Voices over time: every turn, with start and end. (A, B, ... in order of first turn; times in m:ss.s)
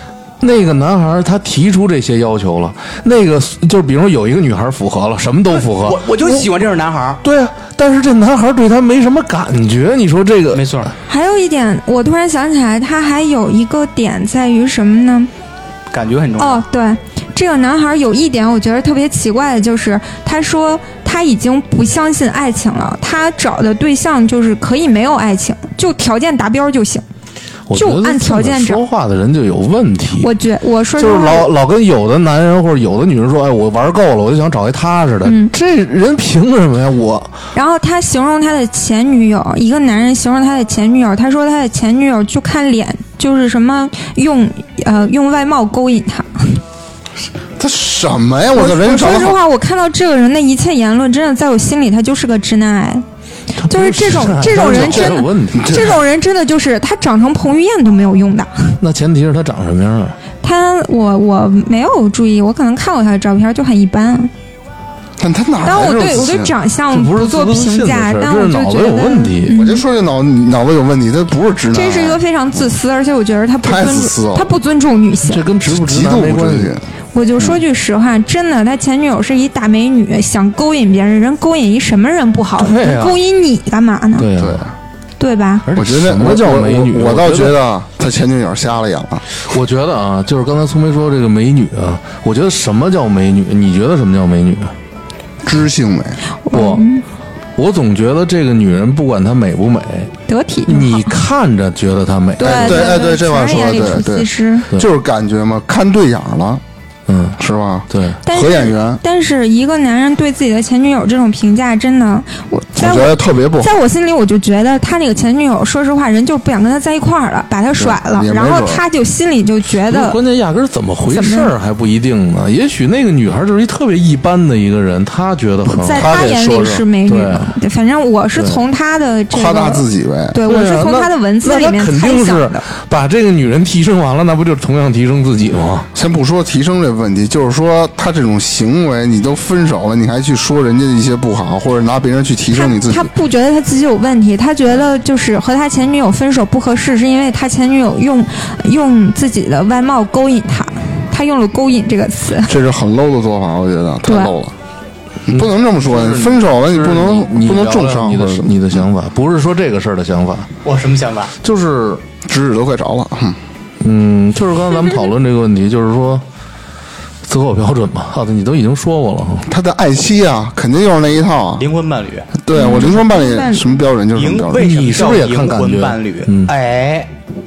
0:00.4-0:06.5 A
0:05.6-0:07.2 B
0:07.2-0:10.7 A
0:10.5-0:10.9 B
0:11.1-0:15.3 C
0:15.9-0:16.6 B
0:16.4-0:27.0 C
0:27.7-0:30.3 A
0:27.7-0:28.8 C
0:30.2-0:31.5 C
0:31.0-0:37.4 A
0:35.2-0:35.5 C
0:37.5-0:46.6 C
0:47.6-0:49.4 D
0:48.5-0:53.0 C
0:53.6-0:55.9 A
0:53.6-0:58.8 C
0:54.6-0:56.0 D
0:58.8-1:00.2 A
1:00.4-1:04.3 C
1:05.2-1:06.5 D
1:05.6-1:09.8 C
1:06.9-1:09.6 A
1:09.5-1:12.6 D
1:11.7-1:15.4 C
1:13.6-1:14.5 D
1:15.3-1:16.7 A
1:15.6-1:16.8 D
1:17.1-1:24.3 C
1:22.6-1:23.2 A
1:24.2-1:24.6 A
1:24.4-1:24.7 D
1:25.2-1:25.7 C
1:25.7-1:27.6 A
1:25.8-1:29.2 D
1:29.4-1:34.7 A
1:35.4-1:36.2 D
1:36.4-1:37.0 C
1:36.5-1:36.9 A
1:37.6-1:40.1 A
1:40.3-1:41.2 C
1:40.7-1:43.0 A
1:42.4-1:44.7 C
1:42.4-1:46.6 D
1:47.1-1:47.4 A
1:47.4-1:49.0 D
1:47.9-1:48.2 A
1:48.2-2:00.2 C
1:52.8-1:53.7 D
1:57.8-1:58.8 D
1:59.9-2:06.4 A
2:01.1-2:01.5 C
2:05.7-2:12.7 C
2:05.9-2:06.8 D
2:07.1-2:07.6 A
2:08.4-2:08.6 A
2:09.3-2:10.4 D
2:10.4-2:15.9 A
2:15.9-2:23.1 D
2:22.5-2:32.5 C
2:32.5-2:34.6 D
2:34.0-2:34.3 C
2:35.3-2:38.9 D
2:35.3-2:40.5 A
2:40.6-2:41.3 B
2:41.4-2:42.0 A
2:42.2-2:43.4 D
2:43.8-2:46.2 A
2:47.3-2:49.5 A
2:49.5-2:51.6 D
2:51.6-2:52.3 B
2:52.3-2:54.7 D
2:52.5-2:53.8 C
2:54.1-2:57.1 B
2:54.6-2:56.5 A